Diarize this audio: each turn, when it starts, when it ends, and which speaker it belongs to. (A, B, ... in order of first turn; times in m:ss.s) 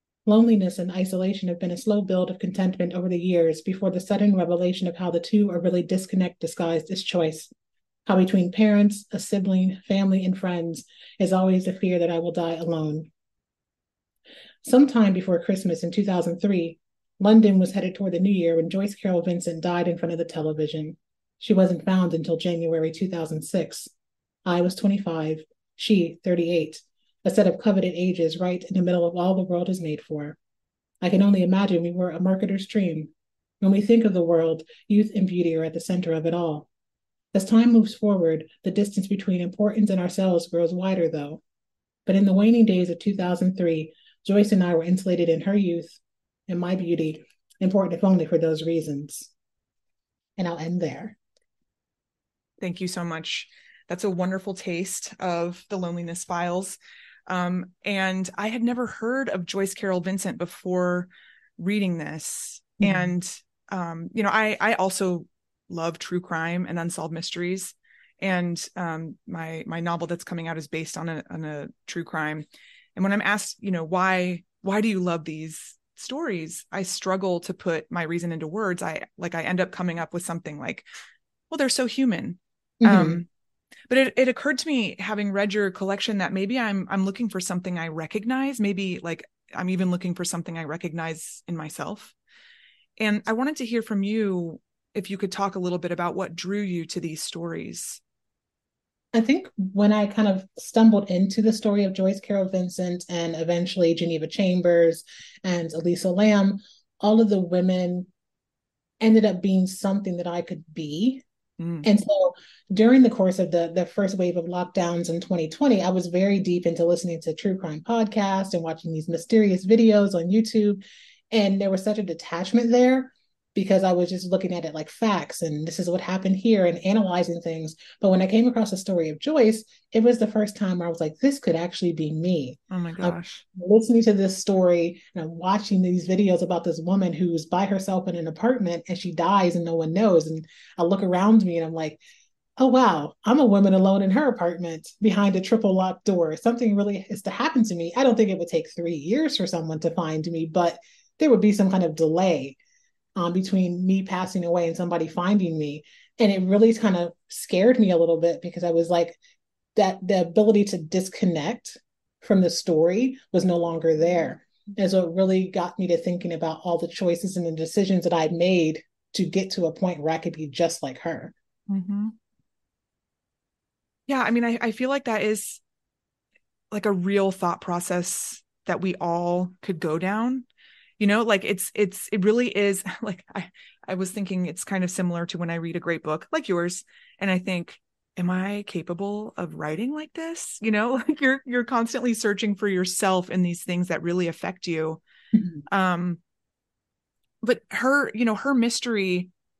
0:00.3-0:07.5 A
0:08.1-0:13.1 A
0:14.6-0:23.9 A
0:24.4-0:30.4 A
0:31.0-0:36.7 A
0:37.3-0:41.4 A
0:42.1-0:49.3 A
0:50.4-0:51.2 A
0:52.6-1:20.9 B
1:02.8-1:03.1 A
1:21.5-1:23.3 B
1:22.8-1:23.2 A
1:23.9-1:32.1 B
1:33.0-1:38.0 B
1:39.1-1:48.1 A
1:49.0-1:51.2 A
1:51.6-1:51.8 B
1:51.8-2:00.8 A
2:01.3-2:22.0 A
2:12.7-2:13.4 B
2:22.6-2:32.6 A
2:33.2-2:39.2 A
2:39.8-2:51.3 A
2:51.7-2:52.2 B
2:54.1-2:55.6 B
2:56.7-3:00.5 B
3:01.0-3:15.0 B
3:15.4-3:15.6 A
3:15.7-3:16.2 B
3:17.4-3:19.3 B